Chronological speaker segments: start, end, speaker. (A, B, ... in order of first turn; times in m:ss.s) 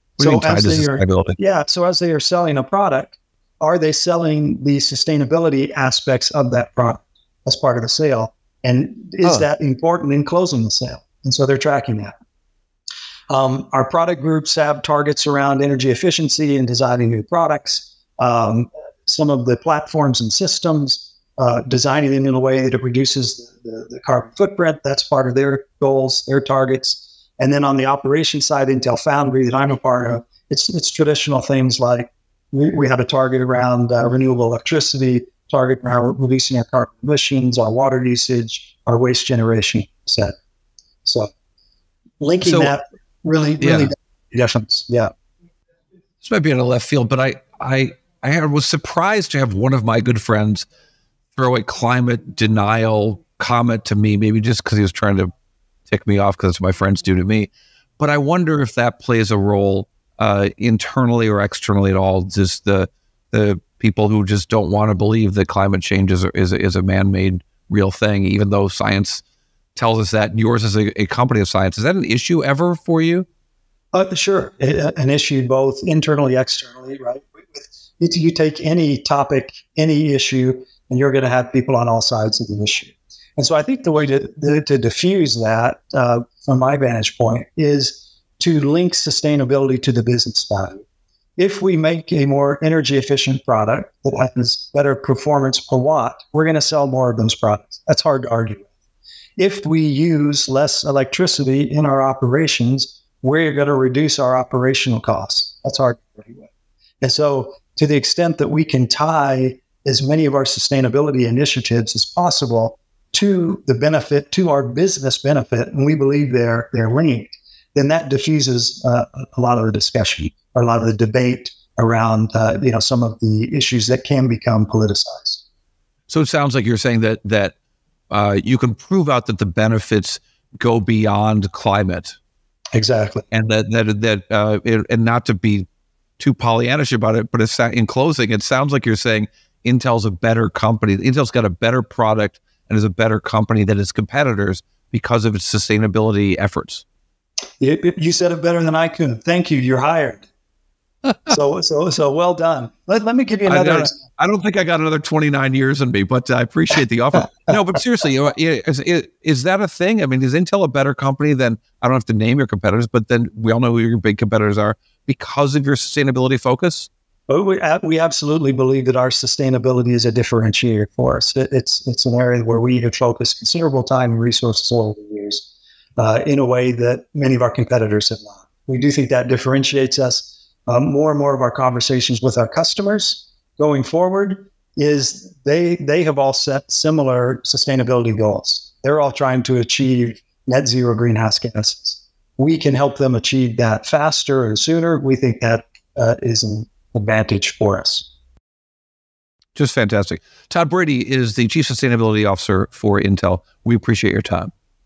0:00.2-0:12.1 A
0:00.2-0:01.4 B
0:13.3-0:40.4 A
0:41.0-0:41.3 A
0:42.2-0:45.1 A
0:42.4-0:42.7 B
0:43.6-0:43.9 B
0:46.2-0:50.7 B
0:51.4-0:55.3 B
0:55.9-1:09.2 B
1:09.8-1:13.3 B
1:13.9-1:30.8 A
1:31.4-1:38.7 A
1:39.4-1:46.5 A
1:47.0-2:05.4 A
2:06.1-2:07.5 B
2:08.1-2:12.2 B
2:12.7-2:13.2 A
2:13.3-2:15.7 B
2:16.2-2:26.8 B
2:27.6-2:30.3 A
2:31.3-2:34.0 A
2:33.5-2:46.9 B
2:47.3-3:18.1 A
3:19.6-3:24.5 B